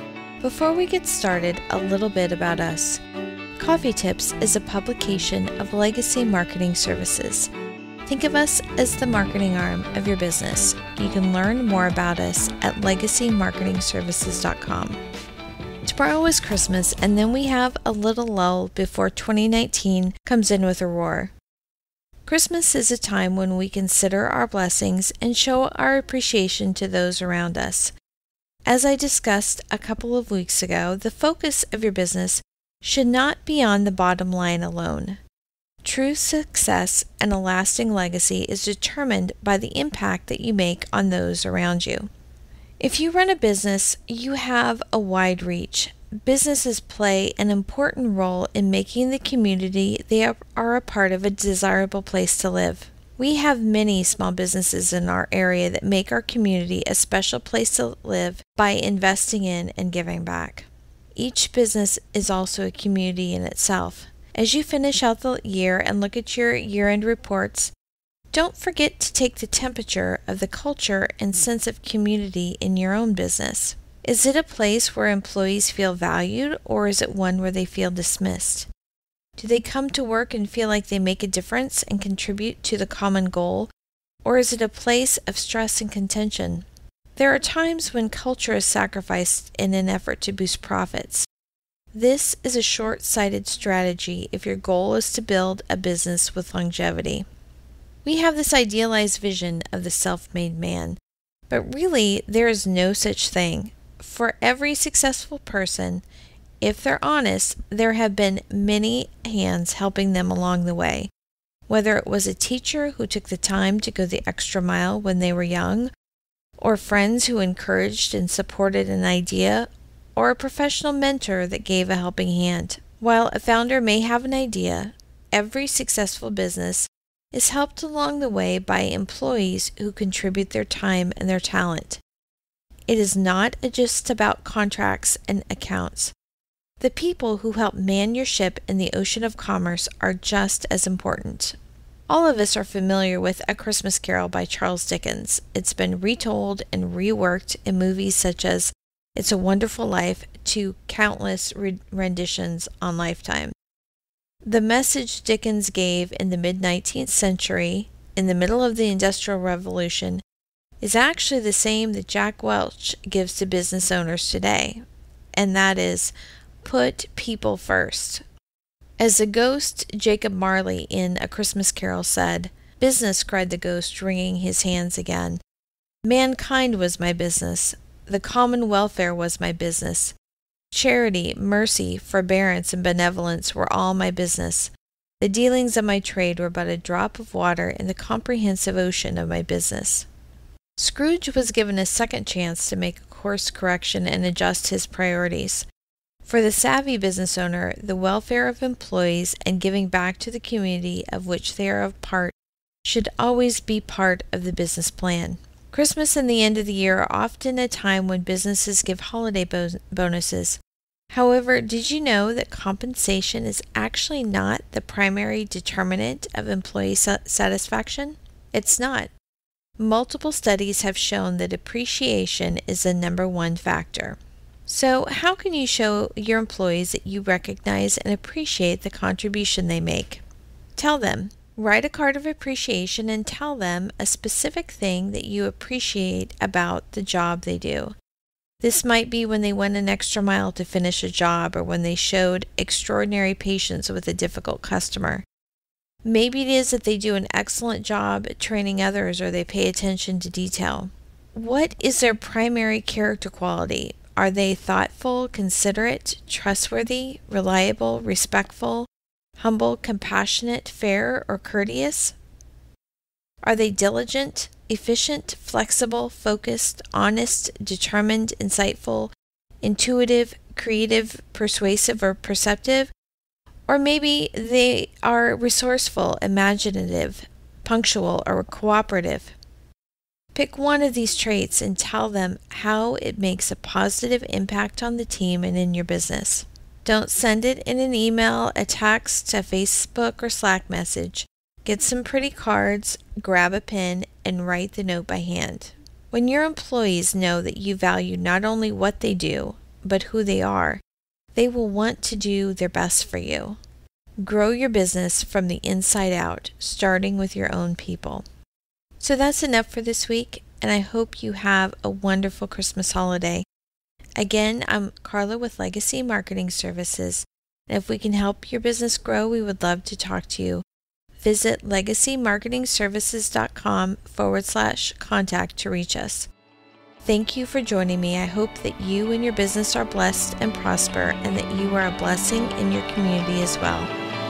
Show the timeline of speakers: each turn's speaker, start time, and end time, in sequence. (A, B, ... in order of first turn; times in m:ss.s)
0:00.4-0:03.0 A
0:03.6-0:07.5 A
0:08.0-0:15.0 A
0:15.8-0:21.3 A
0:22.2-0:27.9 A
0:28.6-0:35.2 A
0:35.8-0:42.1 A
0:42.8-1:07.7 A
1:08.3-1:18.7 A
1:19.4-1:23.7 A
1:24.2-1:26.6 A
1:27.2-1:31.3 A
1:31.9-1:37.2 A
1:38.0-1:41.0 A
1:41.5-1:46.0 A
1:46.6-1:51.1 A
1:51.7-1:55.9 A
1:56.6-2:12.0 A
2:12.9-2:16.1 A
2:16.8-2:21.6 A
2:22.1-2:33.5 A
2:34.4-2:40.2 A
2:40.8-2:44.8 A
2:45.3-2:48.2 A
2:49.0-2:55.4 A
2:56.0-3:00.1 A
3:00.7-3:10.1 A
3:10.8-3:15.6 A
3:16.2-3:30.6 A
3:31.1-3:39.1 A
3:39.8-3:50.2 A
3:50.8-3:57.9 A
3:58.6-4:05.2 A
4:06.0-4:22.2 A
4:23.4-4:32.9 A
4:33.7-4:39.3 A
4:40.3-5:00.8 A
5:01.3-5:03.6 A
5:04.2-5:08.2 A
5:09.0-5:13.4 A
5:14.2-5:20.6 A
5:21.2-5:26.3 A
5:27.0-5:33.9 A